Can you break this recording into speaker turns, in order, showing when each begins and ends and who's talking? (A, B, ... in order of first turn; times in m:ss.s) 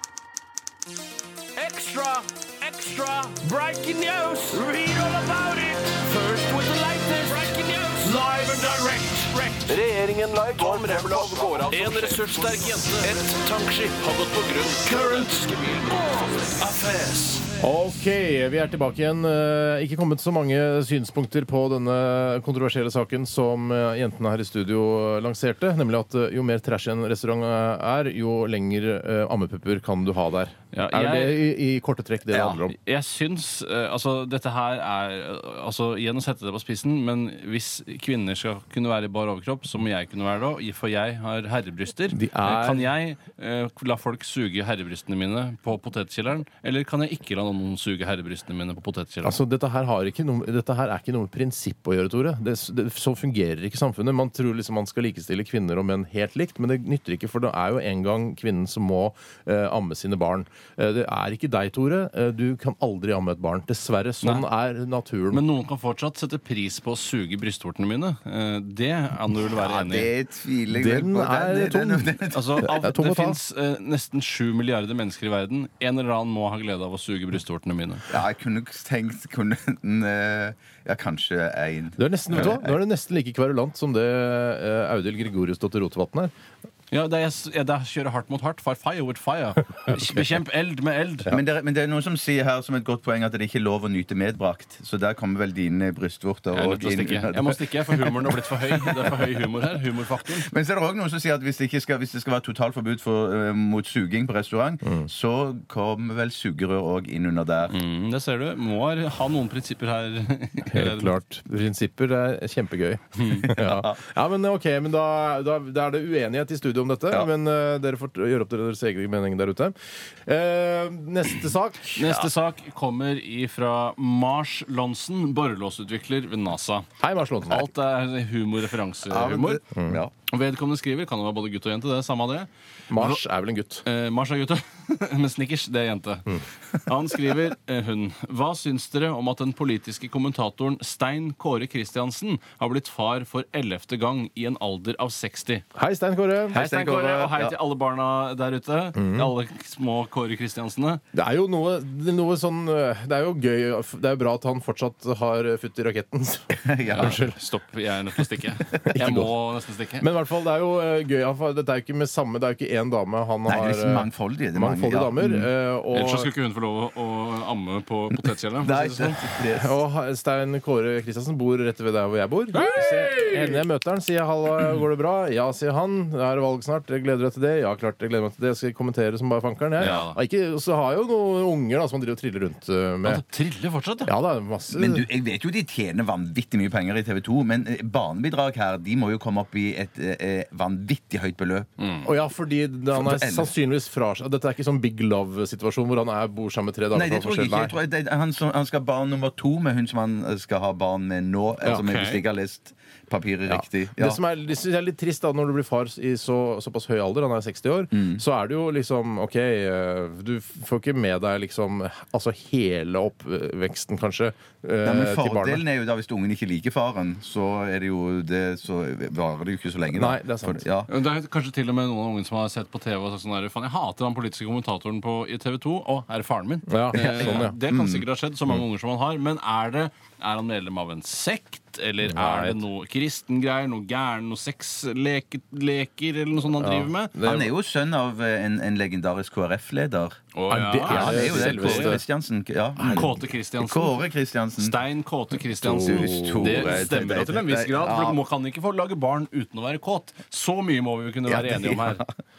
0:01.6-0:05.4 A
0:04.7-0:14.7 B
0:06.0-0:17.4 A
0:17.6-0:32.8 C
0:30.7-0:31.4 A
0:32.3-0:49.4 A
0:42.1-0:42.9 C
0:49.2-1:05.4 C
1:05.3-1:10.1 A
1:09.5-1:12.7 D
1:10.7-1:13.4 C
1:12.3-1:18.1 A
1:18.1-1:22.8 D
1:22.0-1:26.3 C
1:26.9-1:31.4 A
1:31.3-1:39.2 D
1:36.5-1:40.5 A
1:40.4-1:47.8 D
1:47.7-1:51.1 A
1:50.7-1:59.8 C
1:53.5-1:54.0 D
2:00.3-2:02.1 C
2:02.0-2:06.9 A
2:02.0-2:02.3 D
2:07.0-2:07.7 C
2:07.4-2:09.6 A
2:09.1-2:10.1 D
2:10.3-2:13.2 A
2:12.9-2:13.8 C
2:13.8-2:25.6 A
2:25.8-2:26.6 C
2:26.5-2:27.6 D
2:26.5-2:31.0 A
2:29.0-2:29.3 C
2:31.1-2:37.4 C
2:36.6-2:37.2 D
2:36.9-2:40.1 A
2:38.9-2:39.3 C
2:40.0-2:46.3 C
2:43.5-2:45.5 D
2:45.9-2:49.2 A
2:48.6-2:49.8 D
2:49.6-3:03.2 C
2:52.5-2:53.6 A
2:59.8-3:00.2 A
3:03.0-3:04.1 A
3:04.0-3:05.1 C
3:04.7-3:11.7 D
3:11.8-3:12.1 A
3:12.0-3:17.8 C
3:12.9-3:13.5 D
3:16.9-3:24.2 D
3:21.7-3:22.2 A
3:23.5-3:35.6 C
3:27.9-3:28.2 D
3:34.8-3:40.9 D
3:39.9-3:40.7 C
3:40.9-3:57.2 A
3:46.7-3:47.6 C
3:46.9-3:48.0 D
3:52.0-3:52.6 C
3:56.5-3:57.5 C
3:57.2-4:00.2 D
4:00.4-4:02.0 A
4:00.5-4:02.0 C
4:00.8-4:04.8 D
4:02.8-4:03.1 C
4:02.8-4:12.0 A
4:05.6-4:06.9 C
4:05.6-4:08.2 D
4:11.3-4:12.1 D